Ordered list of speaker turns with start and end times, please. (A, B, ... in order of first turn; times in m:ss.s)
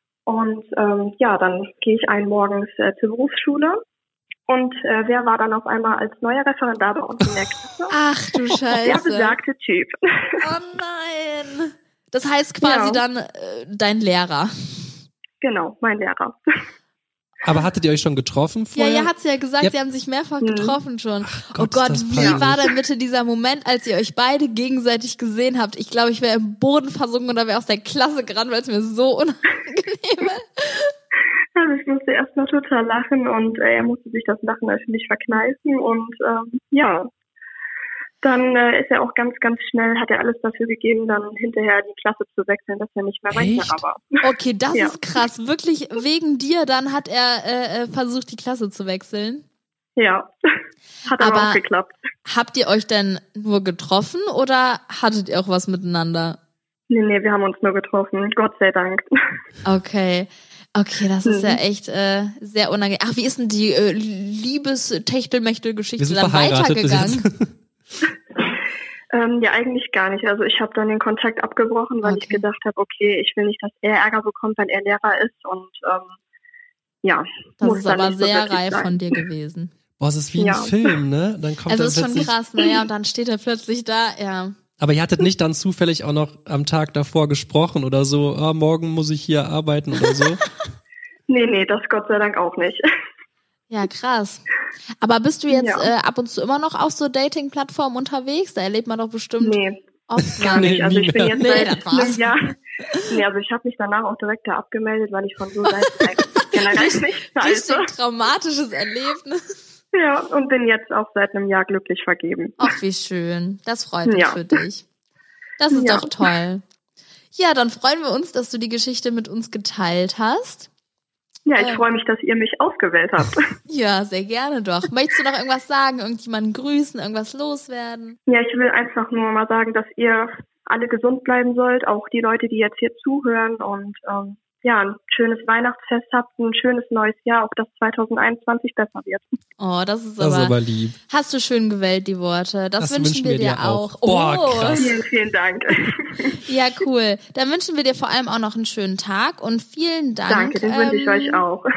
0:00.2-0:03.8 A
0:04.5-0:07.9 A
0:07.9-0:09.4 B
0:08.8-0:10.4 A
0:10.4-0:14.5 B
0:12.6-0:13.0 A
0:15.4-0:16.4 A
0:17.4-0:19.7 C
0:18.8-0:30.9 B
0:20.4-0:20.8 A
0:21.2-0:22.6 C
0:22.2-0:22.4 A
0:31.6-0:37.1 A
0:38.2-0:44.1 A
0:43.3-0:43.8 C
0:44.2-0:49.4 B
0:50.0-0:50.3 A
0:51.1-0:52.0 A
0:51.2-0:51.6 B
0:52.2-0:56.4 B
0:56.9-0:59.1 A
0:59.6-1:07.3 B
1:01.2-1:01.6 A
1:06.0-1:07.5 C
1:09.1-1:16.1 A
1:12.0-1:12.4 B
1:17.0-1:19.2 A
1:17.6-1:19.7 B
1:20.0-1:22.4 C
1:20.4-1:20.9 A
1:21.7-1:24.6 B
1:24.8-1:30.4 C
1:31.3-1:32.8 A
1:33.7-1:34.4 B
1:35.0-1:40.8 B
1:35.5-1:35.9 A
1:39.4-1:39.8 A
1:40.4-1:47.9 A
1:40.4-1:41.6 C
1:41.3-1:42.2 B
1:46.4-1:49.4 B
1:49.9-1:52.7 A
1:52.6-1:54.8 B
1:54.0-1:54.6 A
1:55.6-1:56.6 B
1:55.7-1:56.2 A
1:57.3-2:00.7 B
2:01.4-2:03.4 A
2:01.6-2:01.8 B
2:03.7-2:08.2 B
2:08.3-2:19.2 A
2:19.6-2:20.6 B
2:20.2-2:21.0 C
2:21.1-2:24.9 B
2:22.8-2:25.0 C
2:24.8-2:26.4 A
2:26.3-2:31.4 B
2:30.3-2:31.6 A